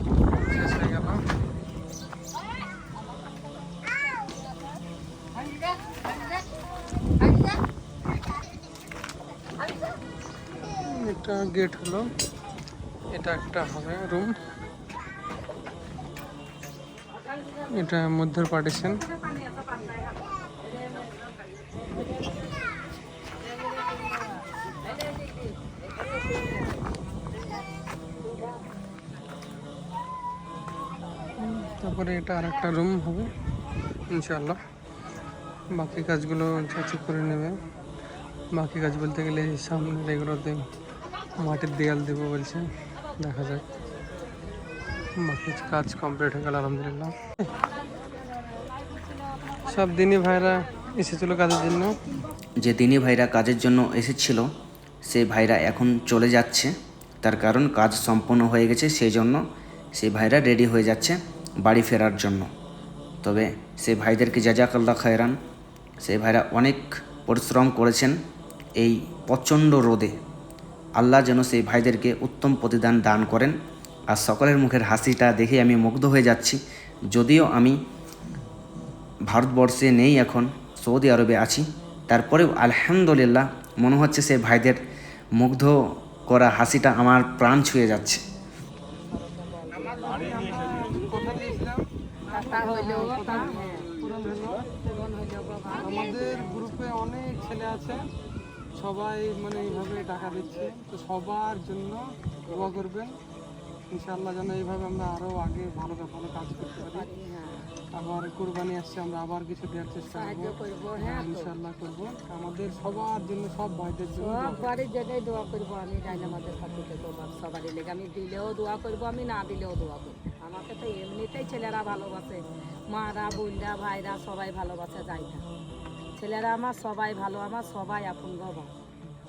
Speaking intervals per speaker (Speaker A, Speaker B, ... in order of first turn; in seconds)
Speaker A: 0.3-1.2, 10.6-12.1, 13.1-14.4, 17.7-19.1, 31.4-33.3, 34.1-34.6, 35.7-37.6, 38.5-40.7, 41.4-42.7, 43.2-43.6, 45.2-47.5, 49.6-52.0, 89.7-94.7, 95.7-98.0, 98.8-103.2, 103.9-107.1, 107.9-114.8, 116.1-116.4
Speaker B: 52.6-54.5, 55.1-59.4, 60.0-62.5, 63.2-65.4, 66.0-68.2, 68.8-70.1, 71.0-73.5, 74.1-77.8, 79.3-84.8, 85.4-88.2
Speaker C: 89.1-90.5, 92.3-93.9, 94.7-96.6, 106.8-107.7, 110.1-111.5, 114.2-125.5, 126.2-128.7